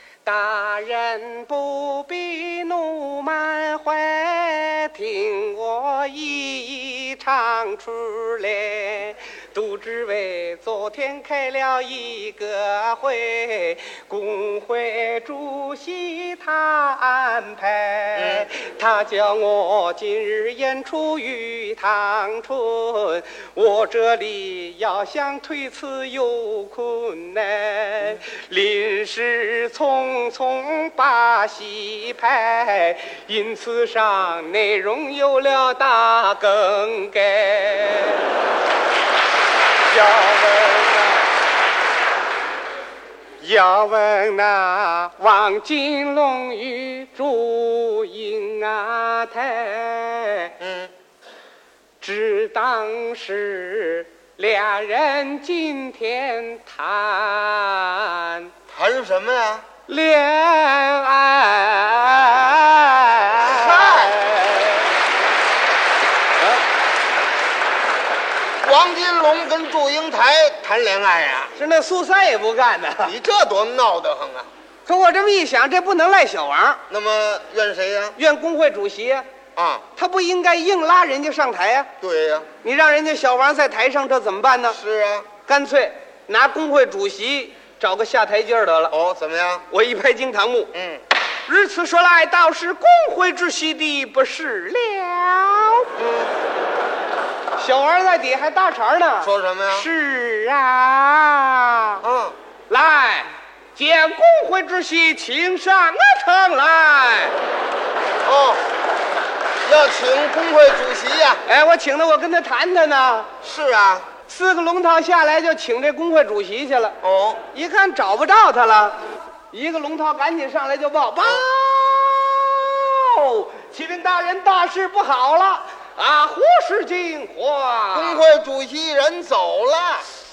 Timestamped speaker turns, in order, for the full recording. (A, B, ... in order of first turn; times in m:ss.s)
0:00.2-0:38.3 A
0:18.2-0:18.5 B
0:39.8-0:41.3 A
0:43.4-0:50.5 A
0:50.6-0:50.9 B
0:52.0-0:58.5 A
0:58.7-0:59.7 B
0:59.9-1:04.9 A
1:03.4-1:04.2 B
1:08.6-1:11.5 B
1:11.6-1:13.1 A
1:13.0-1:14.5 B
1:14.9-1:16.8 A
1:16.9-1:18.2 B
1:18.2-1:19.2 A
1:19.6-1:19.8 B
1:20.0-1:21.9 A
1:22.0-1:22.5 B
1:22.6-1:24.8 A
1:24.7-1:25.3 B
1:25.5-1:28.9 A
1:28.9-1:29.7 B
1:29.7-1:30.7 A
1:30.7-1:31.0 B
1:31.5-1:35.9 A
1:36.0-1:36.4 B
1:37.6-1:42.0 A
1:39.2-1:39.9 B
1:42.0-1:42.4 B
1:42.7-1:47.4 A
1:48.2-1:48.6 B
1:49.6-1:51.4 B
1:51.5-1:53.3 A
1:53.4-1:54.1 B
1:54.3-1:57.0 A
1:57.0-1:57.4 B
1:57.5-1:59.0 A
1:59.5-2:08.3 A
2:07.9-2:10.1 B